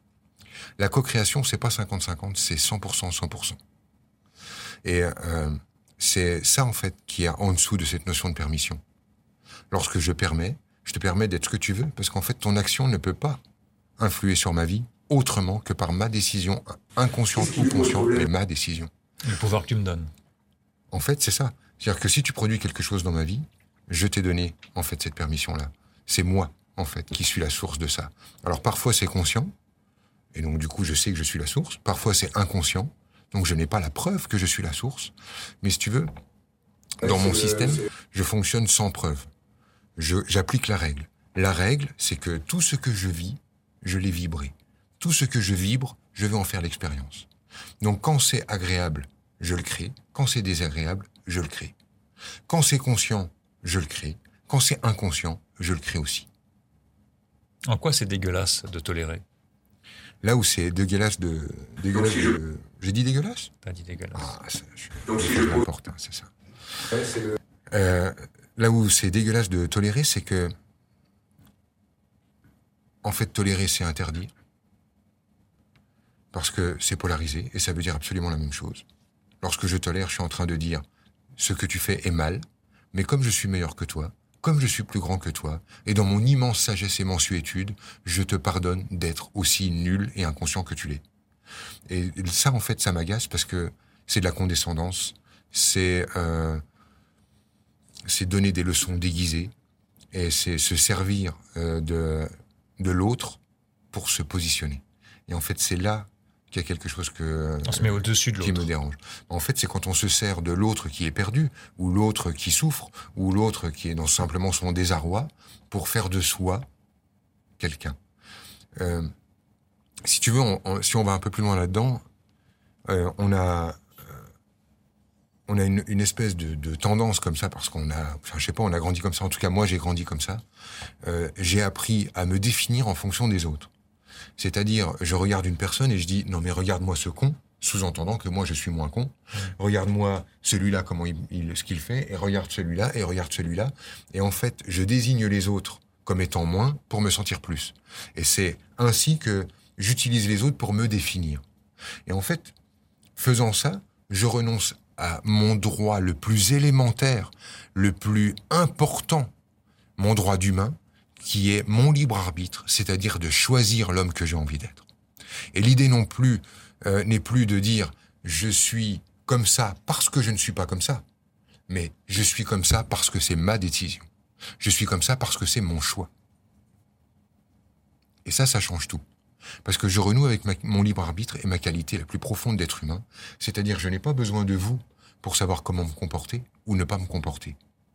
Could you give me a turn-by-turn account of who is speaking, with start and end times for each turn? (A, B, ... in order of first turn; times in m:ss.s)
0:00.8-0:03.6 A
0:04.8-0:08.8 A
0:09.7-0:13.4 A
0:14.0-0:18.9 A
0:19.2-0:20.1 B
0:20.9-0:29.5 A
0:30.3-0:36.1 A
0:37.0-0:39.3 A
0:40.0-0:47.3 A
0:47.8-0:51.8 A
0:52.5-0:56.3 A
0:57.6-0:59.2 B
1:00.2-1:03.5 A
1:03.6-1:04.3 B
1:04.1-1:10.6 A
1:13.0-1:14.3 A
1:16.3-1:18.8 A
1:19.4-1:20.8 A
1:21.4-1:31.0 A
1:31.9-1:36.6 A
1:38.0-1:39.5 A
1:40.1-1:43.4 A
1:43.9-1:56.7 A
1:47.6-1:48.6 B
1:57.6-1:58.0 A
1:58.8-1:59.1 A
2:00.0-2:02.0 A
2:02.9-2:04.3 A
2:05.5-2:10.4 A
2:11.0-2:13.7 A
2:14.4-2:31.4 A
2:32.1-2:32.6 A
2:33.2-2:39.3 A
2:40.0-2:44.9 A
2:45.5-2:51.0 A
2:51.7-2:54.1 A
2:54.6-2:56.1 A
2:58.2-2:59.0 A
2:59.6-3:07.6 A